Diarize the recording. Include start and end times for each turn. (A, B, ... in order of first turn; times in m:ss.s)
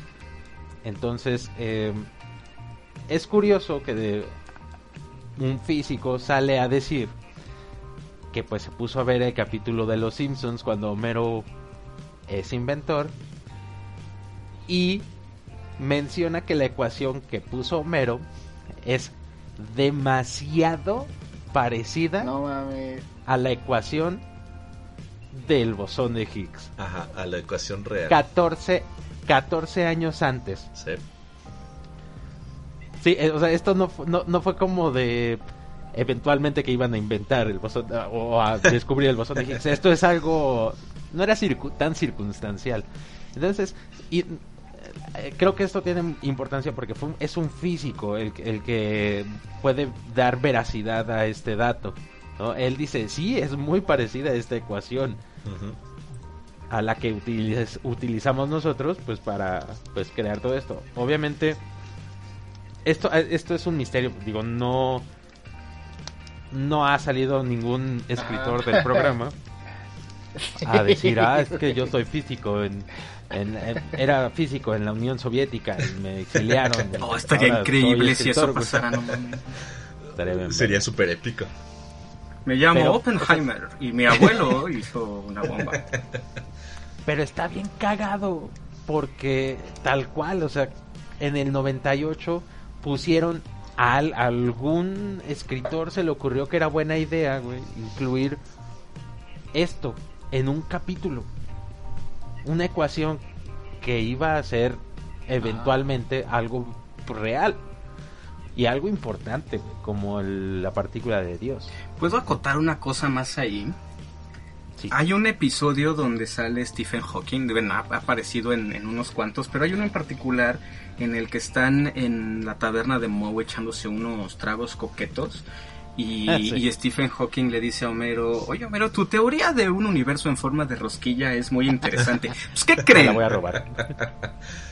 0:00.8-0:02.1 A
0:03.1-0:04.4 A
0:05.4-0:07.2 A
0:08.3-0:11.5 A
0:12.3-0:13.1 A
0:14.7-0:15.1 A
0:15.8-0:18.2 A
0:18.8-0:22.3 A
0:22.2-0:23.0 B
0:23.2-0:24.2 A
0:25.3-0:26.7 A
0:26.8-0:28.2 C
0:28.1-0:30.7 A
0:30.7-0:31.0 C
0:33.0-0:35.4 A
0:35.9-0:55.2 A
0:55.4-0:55.8 C
0:56.7-1:01.6 A
1:02.8-1:05.0 A
1:06.5-1:09.3 A
1:08.2-1:09.1 B
1:10.4-1:11.6 B
1:10.6-1:18.9 A
1:17.0-1:19.6 D
1:20.1-1:20.8 A
1:20.2-1:21.5 C
1:22.4-1:25.9 D
1:22.7-1:23.2 A
1:27.0-1:38.4 A
1:39.5-1:41.3 A
1:42.4-1:43.2 A
1:43.8-1:47.6 A
1:45.4-1:45.8 B
1:48.6-1:51.7 A
1:52.0-1:53.8 D
1:54.9-2:05.4 D
2:06.0-2:13.3 D
2:06.3-2:06.6 A
2:12.9-2:13.9 A
2:13.5-2:14.3 C